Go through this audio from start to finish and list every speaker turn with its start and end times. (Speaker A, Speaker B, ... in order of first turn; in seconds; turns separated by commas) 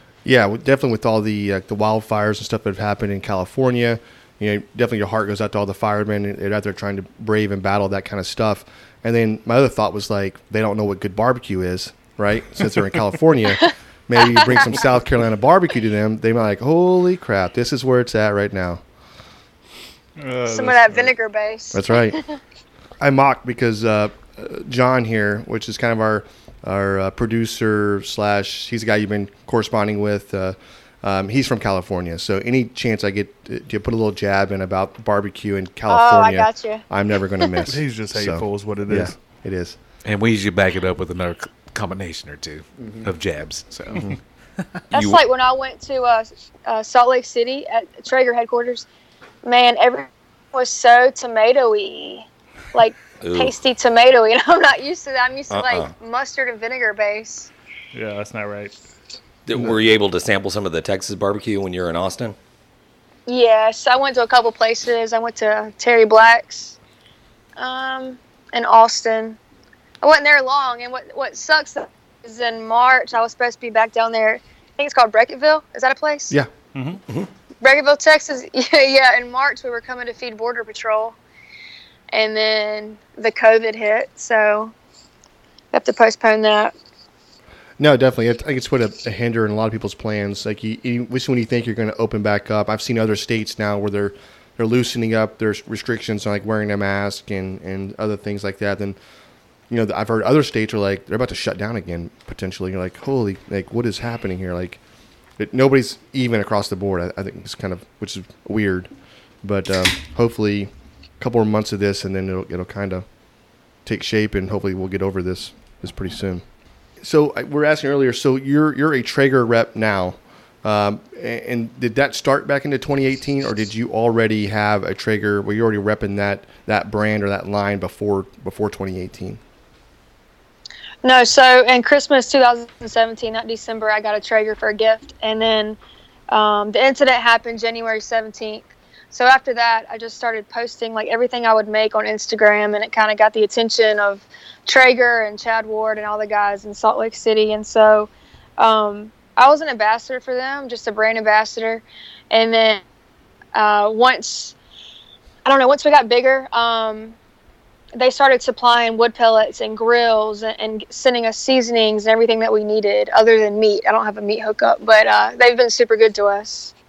Speaker A: 0.2-18.8, Speaker B: 14.3-14.8, Speaker C: 20.2-21.1, Speaker B: 20.4-22.4, Speaker A: 21.7-22.2, Speaker A: 23.0-39.8, Speaker B: 35.9-36.8, Speaker C: 37.6-39.2, Speaker D: 40.0-44.1, Speaker A: 42.8-43.1, Speaker B: 44.9-48.9, Speaker E: 44.9-45.2, Speaker B: 49.4-57.5, Speaker E: 53.2-53.5, Speaker E: 55.5-55.9, Speaker C: 57.9-58.8, Speaker E: 59.5-62.4, Speaker B: 63.3-66.8, Speaker B: 67.6-69.4, Speaker B: 70.0-76.3, Speaker C: 76.7-77.0, Speaker B: 77.6-81.2, Speaker B: 82.1-84.7, Speaker B: 85.7-86.7, Speaker A: 87.8-99.0, Speaker A: 99.7-104.8, Speaker A: 105.4-108.9, Speaker A: 109.4-113.0, Speaker A: 113.8-116.4, Speaker A: 117.0-129.4, Speaker B: 131.0-135.8, Speaker B: 136.3-152.8, Speaker B: 153.5-154.6, Speaker B: 155.4-157.2, Speaker B: 157.9-166.7